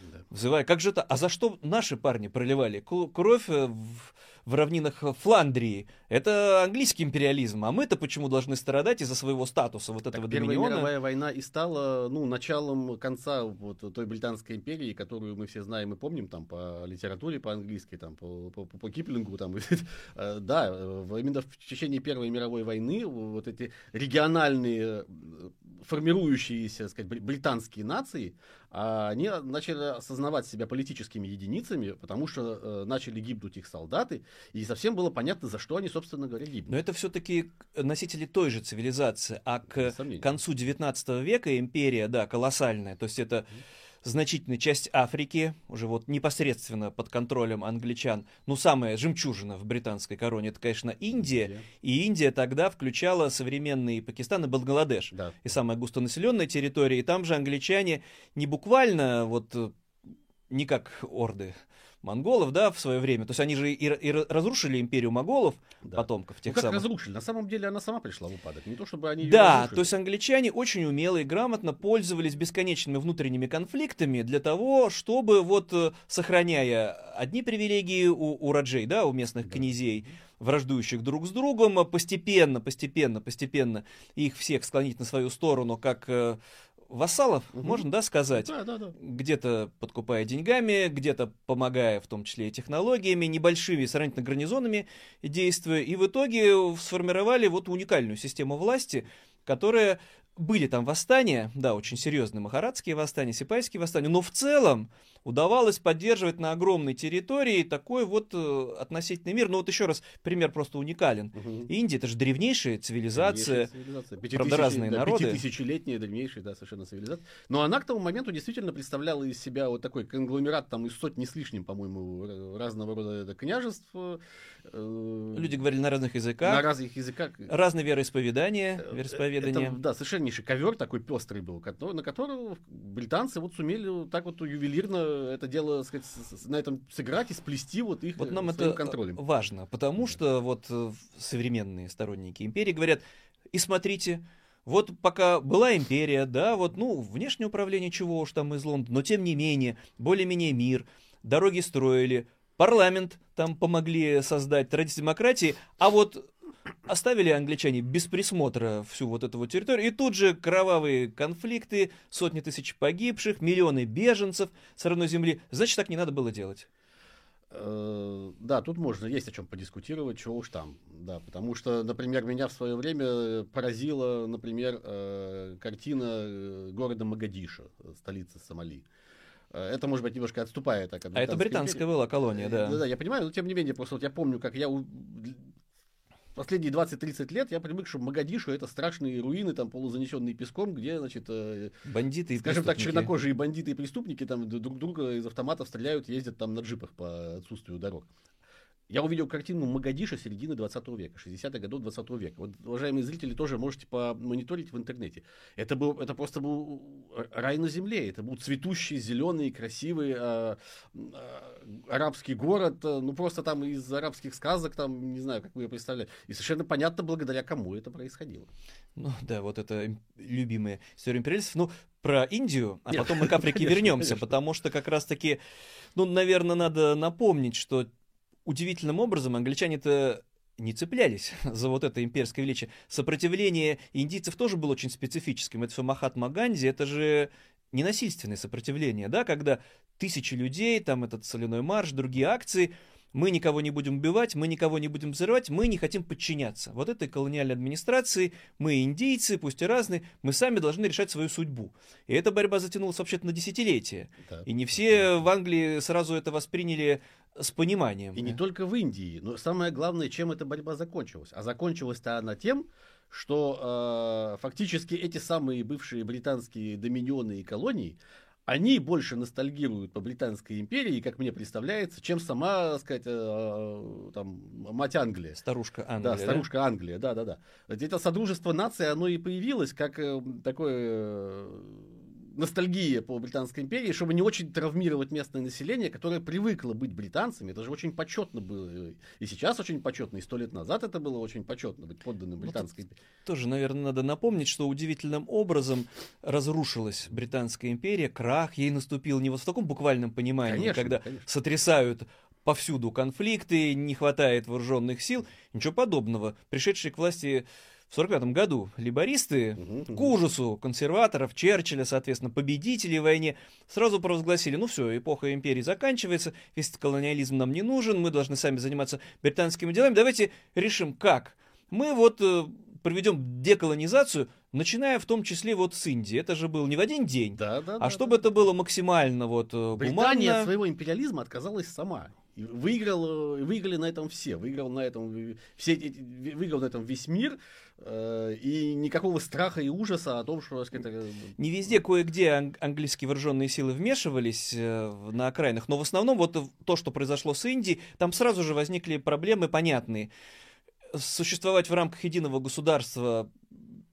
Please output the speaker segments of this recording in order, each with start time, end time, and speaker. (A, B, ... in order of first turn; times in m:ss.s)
0:00.3-0:10.9 A
0:10.1-0:36.8 B
0:36.7-0:43.5 A
0:39.7-0:40.4 B
0:44.0-0:59.8 A
0:51.2-0:51.6 B
0:55.1-0:55.4 B
1:00.5-1:06.8 A
1:05.8-1:09.9 B
1:09.2-1:26.4 A
1:19.5-1:19.8 B
1:26.9-1:53.7 A
1:27.6-1:29.0 B
1:51.4-1:51.7 B
1:53.1-2:05.6 B
1:54.3-1:55.4 A
2:05.3-2:06.7 A
2:06.4-2:07.5 B
2:07.5-2:09.8 A
2:08.8-2:19.2 B
2:18.2-2:36.3 A
2:36.9-2:46.7 A
2:47.5-2:58.9 B
2:59.5-3:05.5 B
3:01.1-3:02.8 A
3:06.4-3:11.8 B
3:11.9-3:13.1 A
3:12.4-3:18.1 B
3:18.9-3:38.5 B
3:39.0-3:45.4 A
3:42.9-3:44.3 B
3:46.0-3:47.9 A
3:48.5-4:18.4 A
4:14.3-4:15.0 B
4:18.2-4:35.4 B
4:35.4-4:36.5 A
4:36.0-4:53.0 B
4:53.3-5:30.5 A
5:00.4-5:01.3 B
5:09.6-5:10.1 B
5:27.4-5:28.5 B
5:29.8-5:41.3 B
5:41.4-5:50.1 A
5:50.9-5:53.6 A